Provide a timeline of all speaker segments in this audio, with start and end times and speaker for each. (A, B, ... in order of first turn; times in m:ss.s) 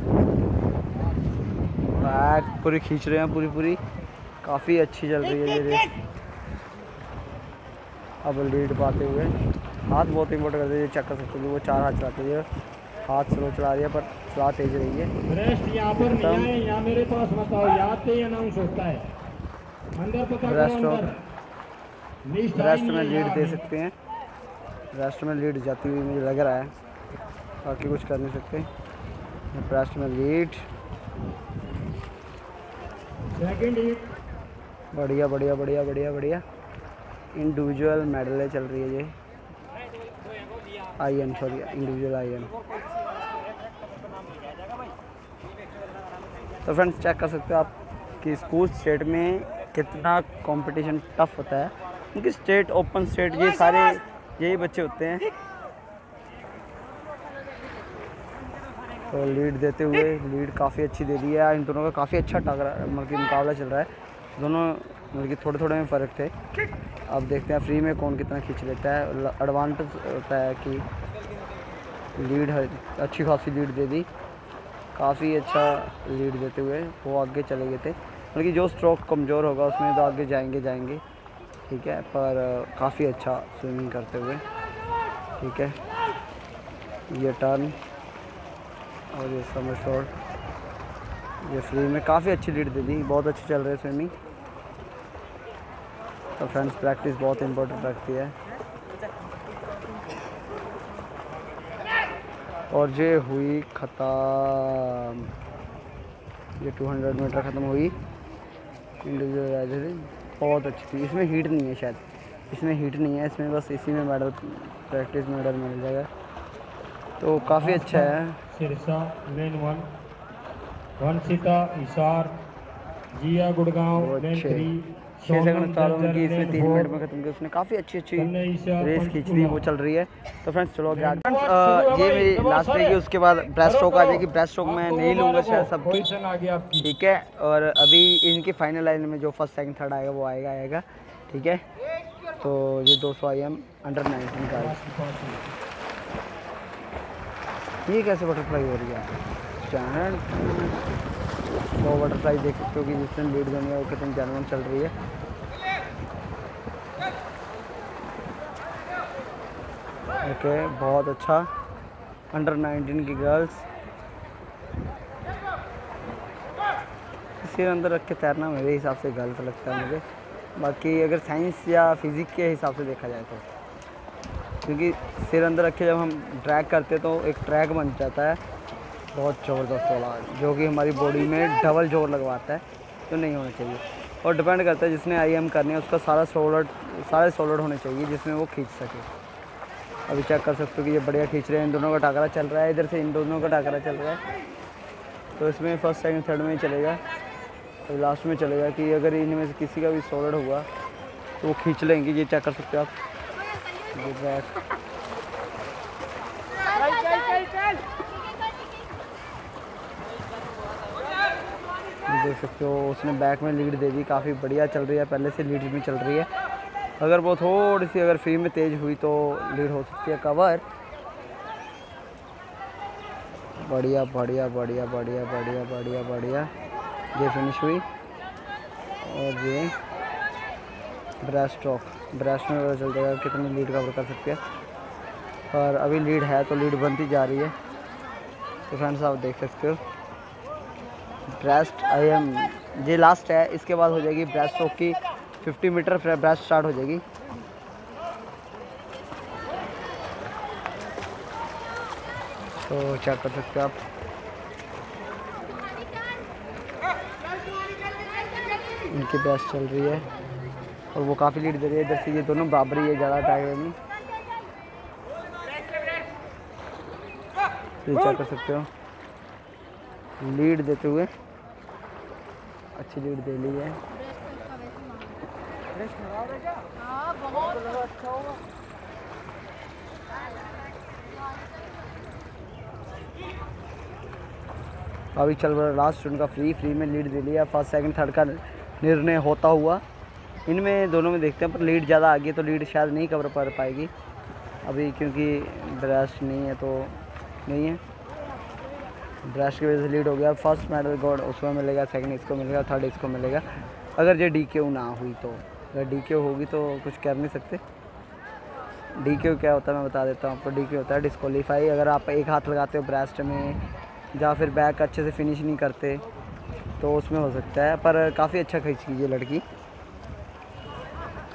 0:02.0-0:03.8 A
0:04.4-0:05.9 A
0:08.2-0:09.3 A
0:09.9-0:12.5 A
0:13.1-0:15.1 A
0:15.3-0:19.1 B
0:16.0-0:16.5 A
0:20.0-0:21.2 B
0:20.4-0:21.1 A
0:22.3-0:23.7 B
0:22.5-0:23.9 A
0:24.9-0:26.7 A
0:27.6-0:28.7 A
0:29.5-0:30.7 A
0:33.3-0:34.1 B
0:34.9-0:36.4 A
0:37.3-0:39.1 A
0:41.0-0:42.5 A
0:46.6-0:55.3 A
0:59.1-1:06.3 A
1:07.1-1:10.9 A
1:12.2-1:14.1 A
1:15.0-1:21.0 A
1:21.7-1:24.4 A
1:25.4-1:25.8 A
1:27.1-1:27.8 A
1:29.1-1:30.1 A
1:31.4-1:34.1 A
1:36.4-1:38.4 A
1:42.7-1:45.3 A
1:46.6-1:48.0 A
1:49.0-1:56.1 A
1:57.2-1:58.4 A
1:57.5-1:59.9 B
2:01.0-2:02.4 B
2:03.1-2:06.9 B
2:04.0-2:04.7 A
2:05.3-2:16.0 A
2:08.2-2:09.6 B
2:10.9-2:13.0 B
2:13.6-2:16.9 B
2:16.8-2:21.6 A
2:22.4-2:24.8 A
2:24.4-2:25.5 B
2:27.9-2:30.8 A
2:31.8-2:34.9 A
2:40.2-2:41.5 A
2:42.3-2:43.6 A
2:47.4-2:50.0 A
2:50.6-2:53.5 A
2:54.6-2:58.4 A
2:59.1-3:09.1 A
3:10.1-3:14.2 A
3:15.4-3:17.0 A
3:17.9-3:20.7 A
3:21.4-3:22.9 A
3:23.9-3:24.6 A
3:32.1-3:36.3 A
3:37.0-3:40.6 A
3:43.6-3:46.5 A
3:47.2-3:47.8 A
3:49.0-3:49.7 A
3:51.2-3:54.4 A
3:55.5-3:57.6 A
3:58.7-3:59.8 A
4:01.3-4:07.0 A
4:12.6-4:13.8 A
4:18.9-4:20.1 A
4:20.9-4:23.8 A
4:27.8-4:28.7 A
4:30.2-4:31.1 A
4:32.8-4:33.8 A
4:45.2-4:49.8 A
4:50.5-4:53.9 A
4:54.6-4:57.8 A
4:59.2-5:03.4 A
5:04.0-5:07.6 A
5:09.0-5:13.6 A
5:14.2-5:16.0 A
5:16.8-5:19.4 A